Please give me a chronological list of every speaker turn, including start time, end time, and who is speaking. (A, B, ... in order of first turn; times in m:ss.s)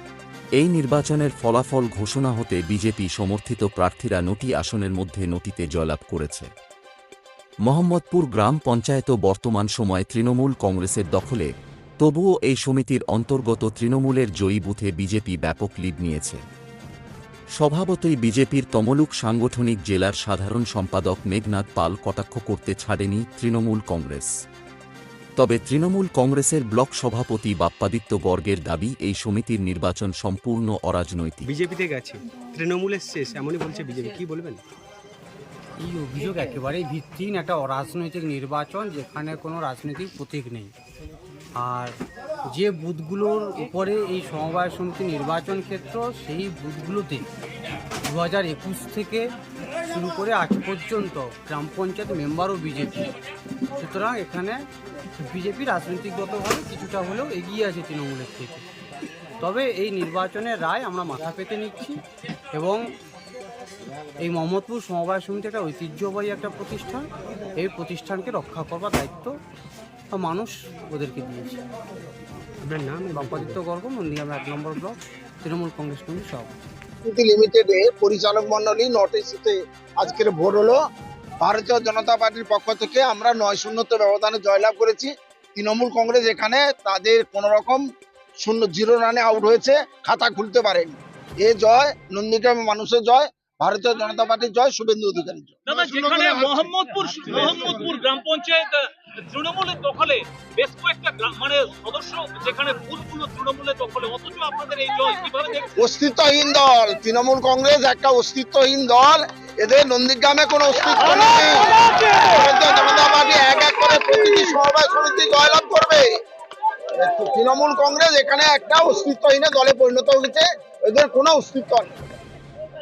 0:00.6-0:06.5 A
0:07.7-0:11.5 A
0:12.0-0:16.4 A
0:17.6-0:24.3 A
0:25.4-0:31.5 A
0:31.4-0:34.6 B
0:35.8-0:40.7 C
0:41.6-0:42.0 C
0:42.5-0:47.2 C
0:48.1-0:49.3 C
0:49.9-0:53.1 C
0:53.8-0:54.6 C
0:55.2-0:58.6 C
0:59.4-1:02.0 C
1:02.6-1:02.8 C
1:04.2-1:09.3 C
1:10.1-1:11.6 C
1:12.6-1:13.6 B
1:13.1-1:16.5 C
1:17.0-1:20.8 D
1:21.4-1:27.8 D
1:28.4-1:35.6 D
1:35.7-1:45.8 E
1:45.8-1:56.1 D
1:57.0-2:01.9 D